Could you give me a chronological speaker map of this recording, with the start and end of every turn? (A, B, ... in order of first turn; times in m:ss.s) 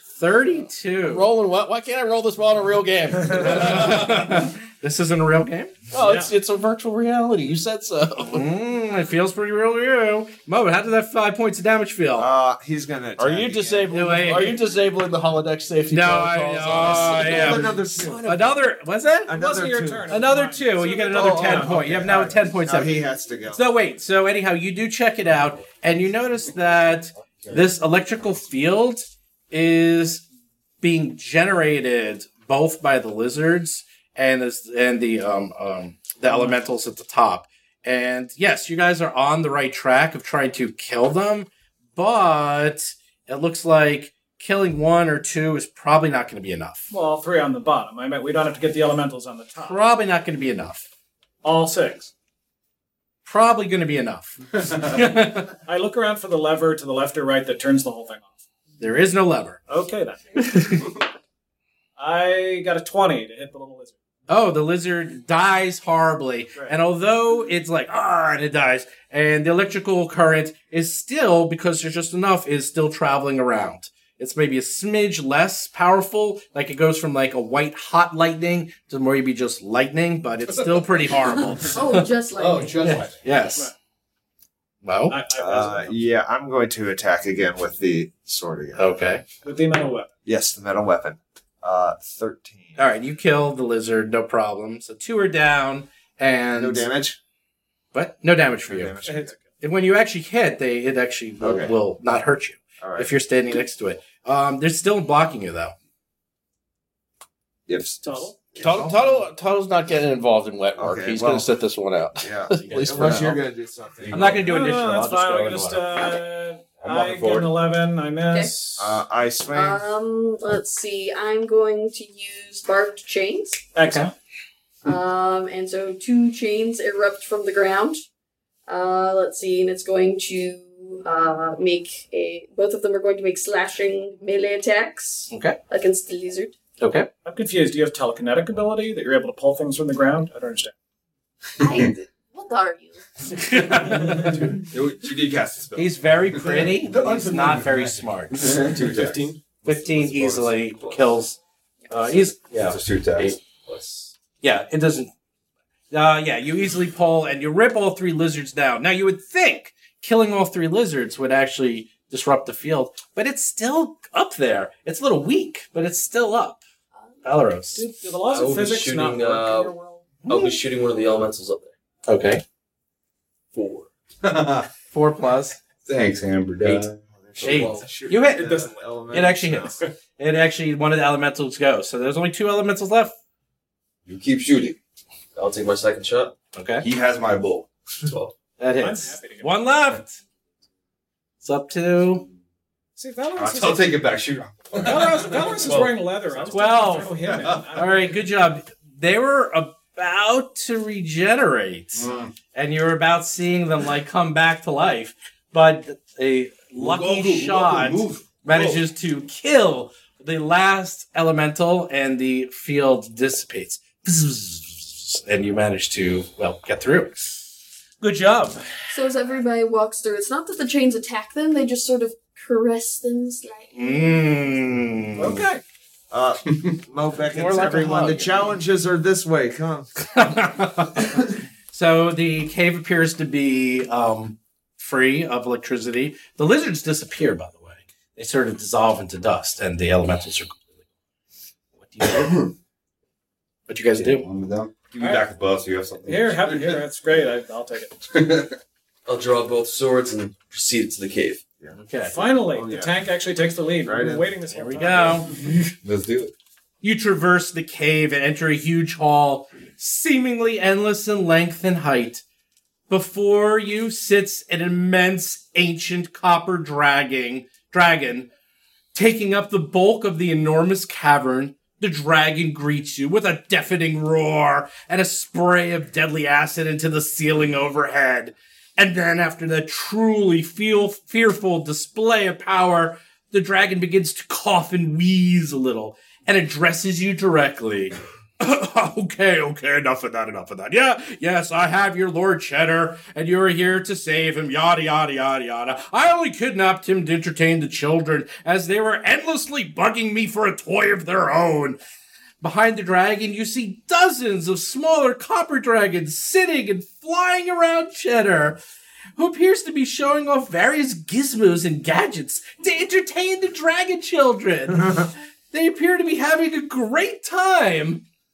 0:00.2-0:01.3 A
0:01.0-0:04.3 B
0:03.4-0:05.7 A
0:05.9-0:08.5 B
0:06.0-0:06.3 C
0:08.3-0:12.3 A
0:12.2-0:14.2 D
0:13.2-0:18.6 B
0:13.9-0:14.6 A
0:15.9-0:19.3 A
0:17.2-0:18.2 D
0:19.3-0:20.1 D
0:19.3-0:21.9 C
0:20.1-0:30.2 A
0:21.2-0:23.6 D
0:30.8-0:46.9 A
0:36.3-0:36.6 C
0:46.9-0:49.8 C
0:49.6-0:50.9 A
0:51.4-0:52.1 C
0:53.2-0:55.5 A
0:55.6-0:58.4 C
0:58.8-0:59.6 A
0:59.7-1:00.7 C
1:00.5-1:00.8 A
1:02.0-1:04.0 C
1:04.3-1:22.1 A
1:20.6-1:21.5 E
1:21.7-1:23.1 F
1:22.4-1:23.2 E
1:22.8-1:23.7 A
1:23.5-1:23.7 C
1:24.8-1:25.2 A
1:25.1-1:26.0 C
1:25.4-1:29.1 D
1:28.8-1:29.2 A
1:29.4-1:30.1 C
1:30.3-1:32.8 D
1:32.8-1:36.9 A
1:36.6-1:37.2 D
1:37.9-1:39.1 A
1:38.7-1:39.3 D
1:39.0-1:39.4 C
1:39.6-1:45.7 A
1:41.4-1:41.7 D
1:42.8-1:43.1 D
1:47.7-1:48.8 D
1:48.0-1:48.5 C
1:48.6-1:53.4 B
1:48.6-1:49.0 A
1:50.8-1:51.5 D
1:52.2-1:54.4 D
1:52.6-1:53.4 A
1:54.0-1:54.4 E
1:54.1-1:55.9 A
1:54.4-1:59.0 C
1:56.8-1:57.5 E
1:58.3-1:58.6 F
1:58.8-1:59.9 D
1:59.5-2:03.7 F
2:03.8-2:04.1 C
2:03.8-2:04.1 A
2:04.8-2:08.0 F
2:08.7-2:16.6 F
2:15.3-2:15.6 A
2:16.8-2:17.1 A
2:17.2-2:20.7 C
2:21.6-2:23.8 F
2:23.5-2:24.6 A
2:23.9-2:31.1 E
2:25.8-2:28.6 A
2:29.6-2:31.4 A
2:31.9-2:32.4 A
2:32.5-2:33.4 E
2:32.5-2:34.1 G
2:34.4-2:35.1 A
2:35.9-2:46.6 A
2:47.2-2:47.9 A
2:47.8-2:50.1 C
2:48.3-2:49.8 G
2:50.3-2:50.6 A
2:50.3-2:51.7 G
2:52.1-2:52.4 A
2:54.2-2:54.7 E
2:54.9-2:55.6 A
2:55.9-2:57.0 E
2:56.6-2:57.9 G
2:57.2-2:59.8 D
2:57.4-3:03.1 A
3:04.1-3:04.8 E
3:05.4-3:06.4 G
3:06.6-3:06.9 A
3:06.8-3:08.3 E
3:08.6-3:10.2 A
3:08.8-3:09.6 C
3:11.4-3:12.3 A
3:13.0-3:14.1 C
3:13.4-3:16.5 E
3:14.8-3:18.2 C
3:16.5-3:37.4 A
3:17.3-3:17.7 E
3:22.0-3:22.3 E
3:26.8-3:28.8 E
3:38.0-3:38.7 A
3:38.9-3:44.2 F
3:43.8-3:45.4 A
3:45.2-3:45.6 C
3:46.1-3:49.9 D
3:47.3-3:48.4 B
3:50.1-4:00.7 A
4:01.8-4:02.4 A
4:03.7-4:04.3 A
4:04.0-4:06.8 E
4:05.0-4:05.3 C
4:06.0-4:08.0 C
4:08.1-4:08.6 E
4:09.1-4:11.4 G
4:11.6-4:12.9 D
4:11.8-4:12.2 A
4:12.1-4:15.4 C
4:13.8-4:14.4 D
4:14.5-4:15.3 A
4:15.8-4:16.3 E
4:16.8-4:22.2 A
4:22.9-4:28.3 A
4:28.9-5:01.8 A
5:02.4-5:08.6 A
5:09.2-5:18.0 A